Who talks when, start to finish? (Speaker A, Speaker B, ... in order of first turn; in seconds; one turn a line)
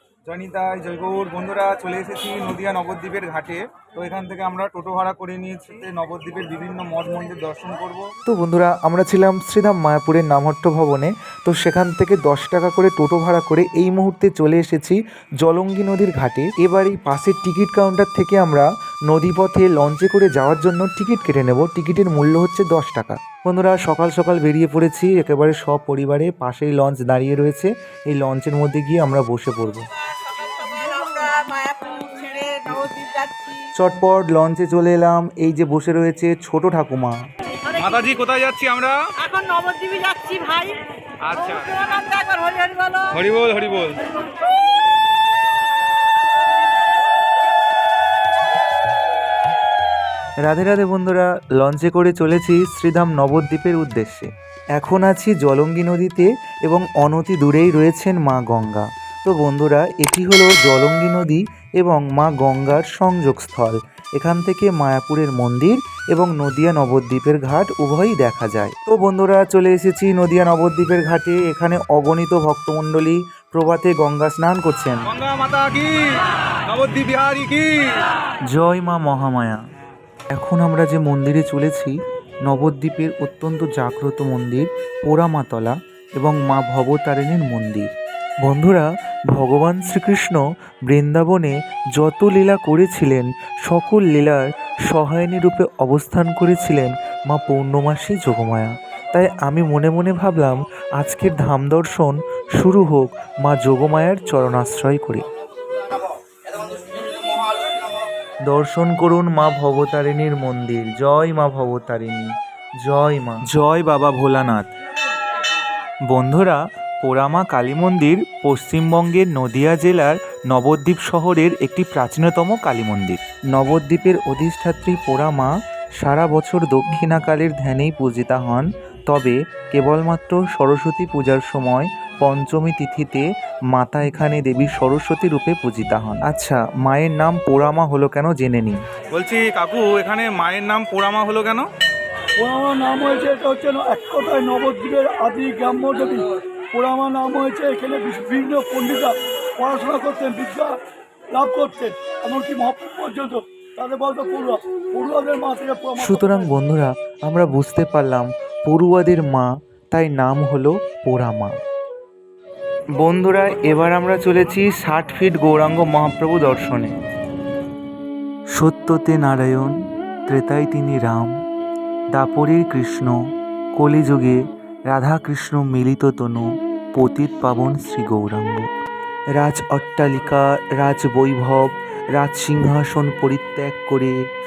Speaker A: 0.3-8.1
Speaker B: 8.2-29.9
Speaker C: 30.5-33.6
Speaker B: 33.7-37.2
Speaker A: 37.7-40.1
Speaker C: 39.6-40.8
Speaker A: 41.2-42.1
Speaker C: 42.0-43.0
Speaker A: 43.0-44.0
Speaker B: 50.4-75.1
Speaker A: 75.1-78.0
Speaker B: 78.5-79.6
Speaker B: 80.3-87.9
Speaker B: 88.4-105.2
Speaker B: 108.4-114.7
Speaker B: 116.0-138.8
Speaker A: 139.1-141.7
Speaker D: 142.4-150.8
Speaker D: 151.3-156.5
Speaker B: 156.0-161.6
Speaker B: 163.0-166.9
Speaker B: 168.5-171.4
Speaker B: 172.1-173.2
Speaker B: 173.8-178.7
Speaker B: 179.4-184.2